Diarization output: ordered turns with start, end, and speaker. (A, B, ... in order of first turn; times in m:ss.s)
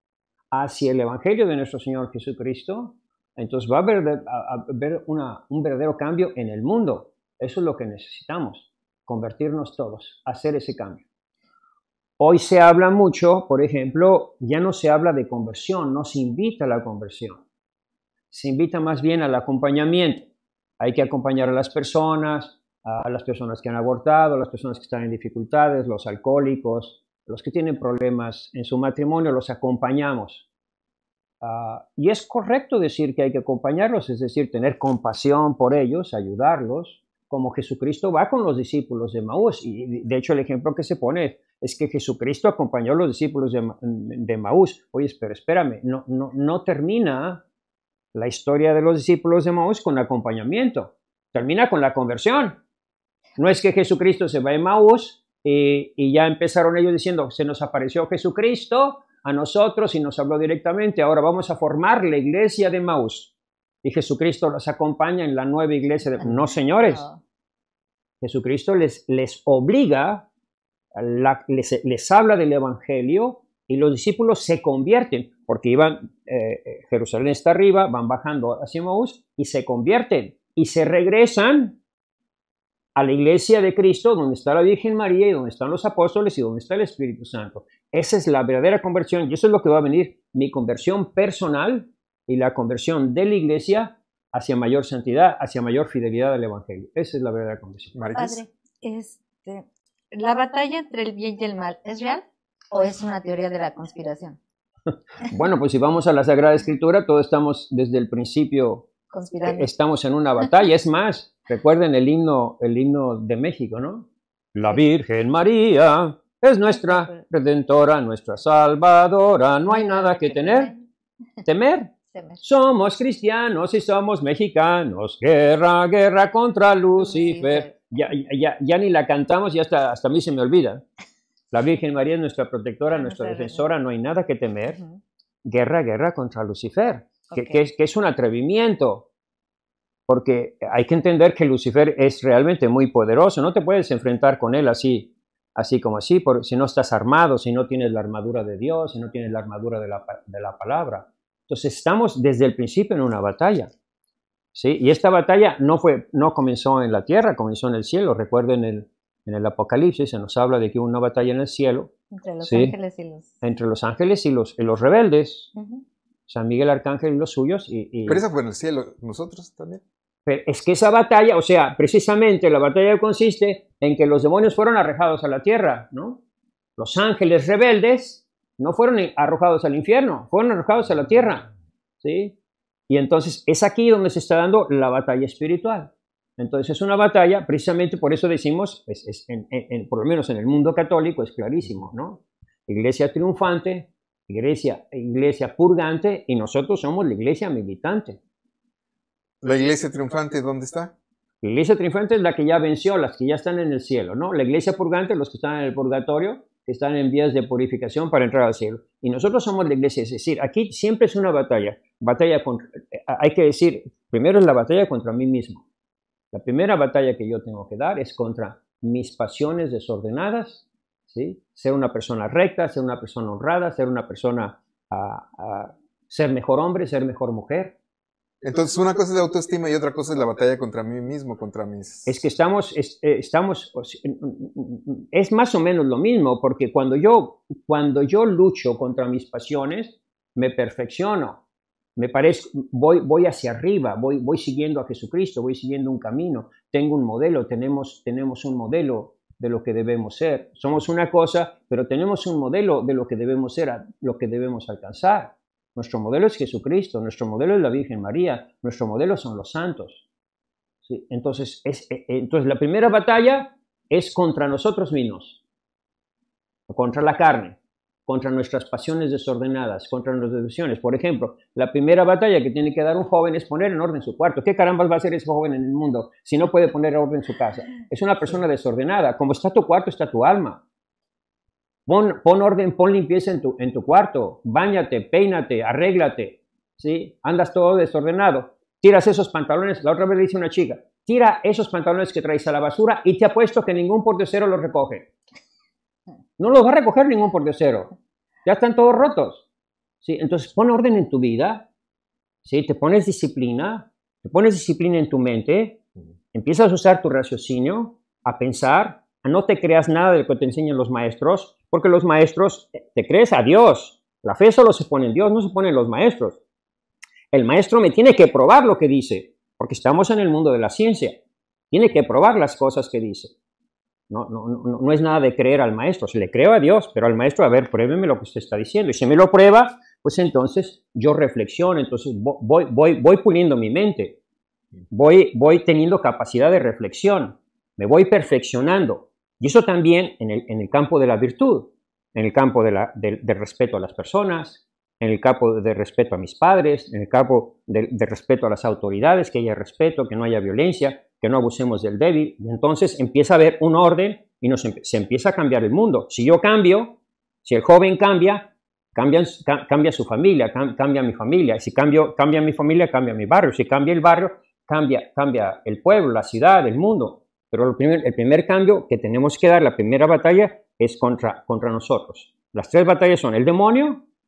0:00.5-0:11.0 A
0:12.2-0:17.4 A
0:18.3-0:30.5 A
0:31.4-0:47.4 A
0:48.1-0:52.6 A
0:53.4-1:07.0 A
1:06.9-1:07.2 B
1:08.2-1:10.3 A
1:10.9-1:21.8 A
1:22.9-1:38.0 A
1:37.9-1:38.4 C
1:38.1-1:44.4 B
1:45.2-1:48.9 A
1:49.1-1:49.7 B
1:49.4-2:00.7 A
1:59.7-2:00.8 B
2:01.4-2:10.8 A
2:02.1-2:02.4 B
2:07.0-2:07.7 B
2:11.5-2:14.8 A
2:12.9-2:13.6 B
2:14.7-2:15.0 B
2:15.4-2:19.1 A
2:20.1-2:33.7 A
2:34.5-2:42.7 A
2:42.1-2:43.3 B
2:43.4-2:45.5 A
2:45.6-2:45.8 B
2:46.3-2:48.2 A
2:48.1-2:49.8 C
2:50.2-2:56.2 A
2:56.8-3:02.4 A
3:02.9-3:18.2 A
3:19.4-3:20.9 C
3:21.4-3:35.6 A
3:36.3-3:47.8 A
3:48.4-3:52.2 C
3:52.0-4:01.4 A
4:02.0-4:20.0 A
4:20.8-4:25.4 A
4:26.7-4:40.6 A
4:41.9-4:55.1 A
4:56.4-4:57.9 A
4:58.4-4:59.4 A
5:00.0-5:01.7 A
5:02.4-5:05.8 A
5:06.3-5:16.4 A
5:17.3-5:23.3 A
5:24.1-5:34.2 A
5:34.9-6:14.0 A